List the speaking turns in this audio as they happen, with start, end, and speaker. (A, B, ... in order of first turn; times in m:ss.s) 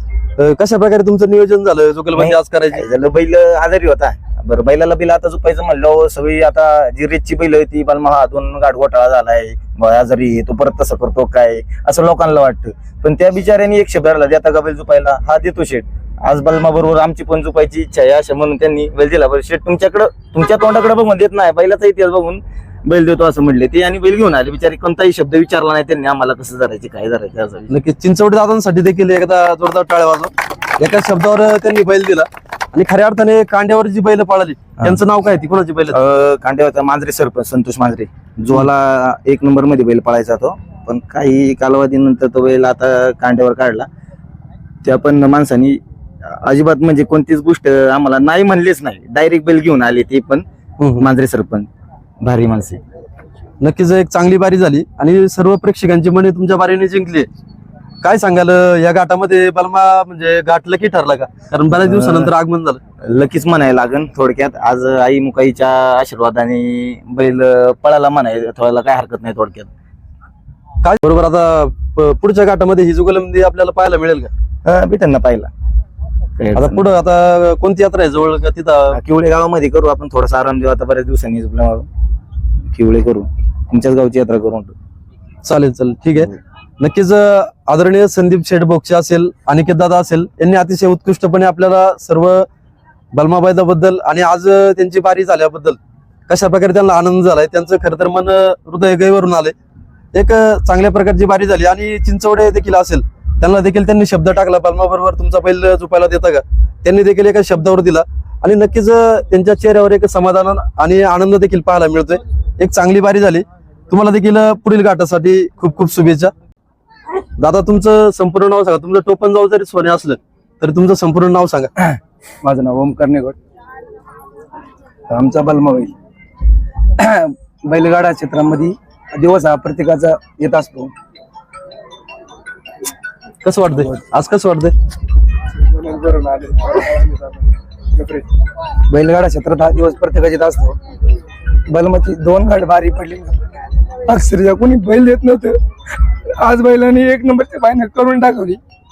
0:00.4-0:02.8 A
0:02.2-0:27.7 B
0:27.7-0:36.0 A
0:35.9-0:43.9 B
0:44.8-0:45.8 B
0:46.3-0:50.4 B
0:50.8-0:51.1 A
0:51.0-0:51.7 B
0:52.2-0:52.8 B
0:53.6-0:57.3 A
0:58.0-1:02.8 A
1:01.8-1:02.3 B
1:03.0-1:09.7 B
1:10.8-1:14.3 A
1:14.6-1:15.5 B
1:16.4-1:16.9 B
1:16.6-1:19.0 A
1:18.9-1:21.9 B
1:22.7-1:24.7 B
1:25.4-1:32.5 A
1:33.1-1:39.5 A
1:40.1-1:56.3 A
1:57.4-2:01.7 A
2:02.4-2:03.4 C
2:05.1-2:05.9 C
2:07.0-2:10.9 C
2:13.4-2:14.7 A
2:15.6-2:18.3 C
2:18.9-2:20.8 C
2:21.7-2:25.6 C
2:26.3-2:28.6 C